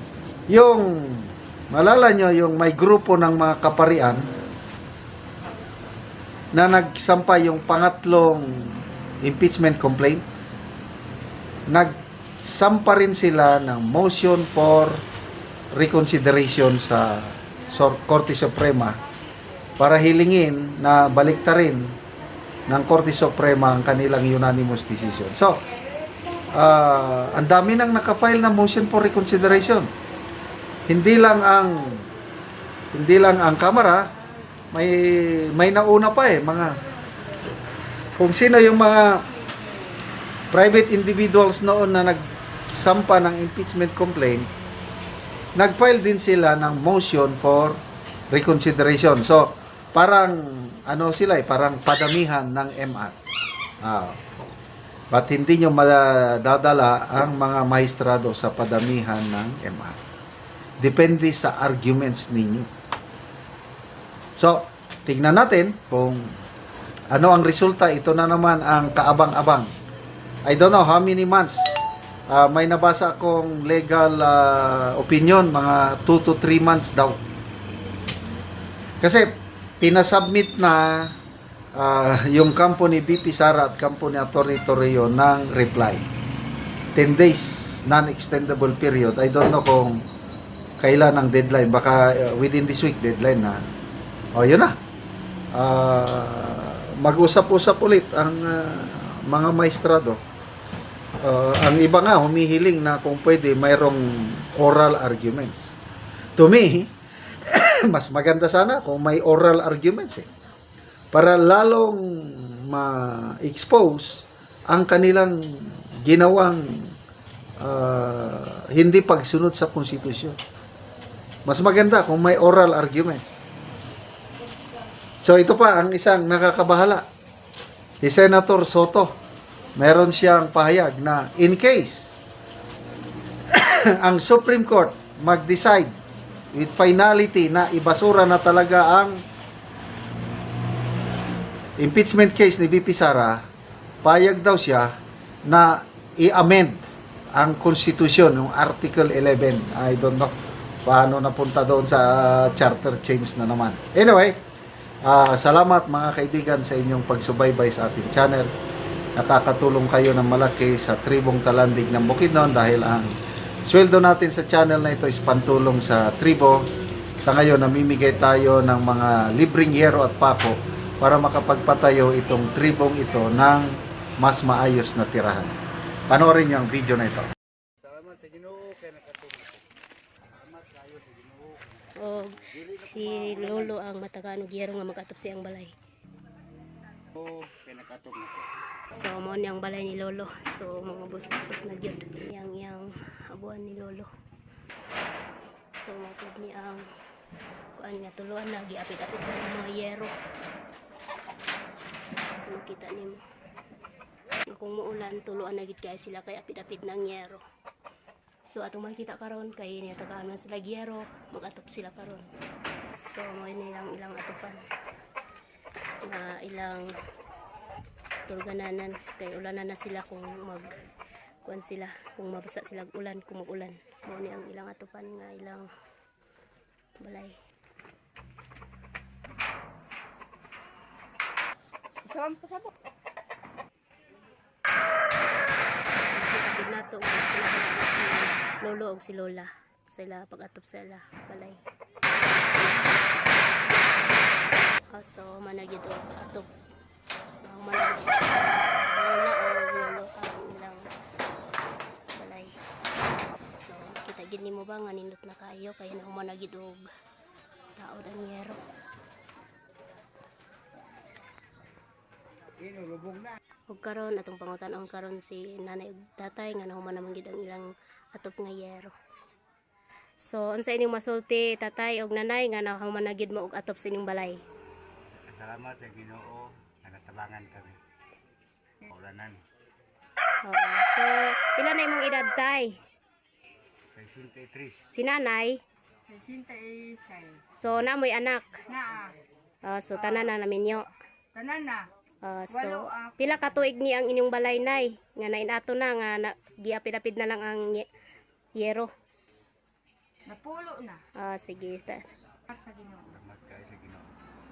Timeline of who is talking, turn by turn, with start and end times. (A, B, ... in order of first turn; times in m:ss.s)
0:00.5-0:04.3 A
0:06.5-0:10.3 A
0:11.7-0:15.0 A
0:15.7-0:19.0 A
0:19.8-0:22.0 A
0:22.7-0:25.6 A
0:26.5-0:29.9 A
0:30.9-0:32.1 A
0:32.9-0:34.1 A
0:34.7-0:36.8 A
0:38.2-0:39.2 A
0:40.5-0:44.5 A
0:45.6-0:53.2 A
0:53.8-0:54.2 A
0:55.1-1:00.0 A
1:00.8-1:02.7 A
1:04.4-1:06.3 A
1:07.1-1:09.7 A
1:10.5-1:17.2 A
1:19.0-1:21.1 A
1:21.8-1:26.1 A
1:27.0-1:30.0 A
1:30.8-1:33.6 A
1:34.4-1:34.8 A
1:35.6-1:40.2 A
1:41.2-1:45.7 A
1:46.4-1:46.9 A
1:47.5-1:50.3 A
1:51.1-1:57.0 A
1:57.6-2:00.4 A
2:01.5-2:03.5 A
2:05.2-2:07.0 A
2:08.0-2:09.2 A
2:09.8-2:12.2 A
2:13.5-2:16.0 A
2:16.6-2:19.2 A
2:21.8-2:23.4 A
2:24.0-2:24.9 A
2:25.5-2:26.8 A
2:27.4-2:30.3 A
2:30.8-2:34.4 A
2:35.0-2:38.5 A
2:39.2-2:43.1 A
2:43.7-2:46.7 A
2:47.2-2:55.6 A
2:56.1-2:57.3 A
2:57.9-2:59.5 B
3:00.4-3:01.8 B
3:02.0-3:05.7 C
3:02.5-3:03.6 B
3:07.2-3:08.5 B
3:08.9-3:14.1 C
3:15.8-3:16.8 C
3:17.8-3:20.1 C
3:22.4-3:23.2 C
3:24.5-3:27.4 C
3:28.5-3:32.3 C
3:33.0-3:34.6 C
3:36.0-3:36.9 C
3:38.3-3:40.8 C
3:41.4-3:45.7 C
3:47.0-3:47.4 C
3:52.0-3:52.7 D
3:56.0-4:01.6 C
4:03.6-4:06.5 C
4:07.4-4:10.9 C
4:12.2-4:12.6 C
4:13.6-4:16.8 C
4:17.8-4:18.6 C
4:23.7-4:28.9 C
4:30.2-4:34.4 C
4:35.2-4:37.8 B
4:38.9-4:39.4 B
4:40.4-4:42.8 C
4:43.9-4:44.9 B
4:45.0-4:45.6 C
4:46.1-4:47.4 D
4:47.6-4:48.6 C
4:48.7-4:49.2 D
4:49.6-4:50.9 C
4:50.0-4:50.3 D
4:51.4-4:51.9 D
4:52.2-4:57.9 C
4:52.5-4:53.3 D
4:58.6-4:58.9 C
5:00.3-5:01.0 D
5:01.2-5:02.2 C
5:02.5-5:03.1 D
5:03.1-5:04.1 B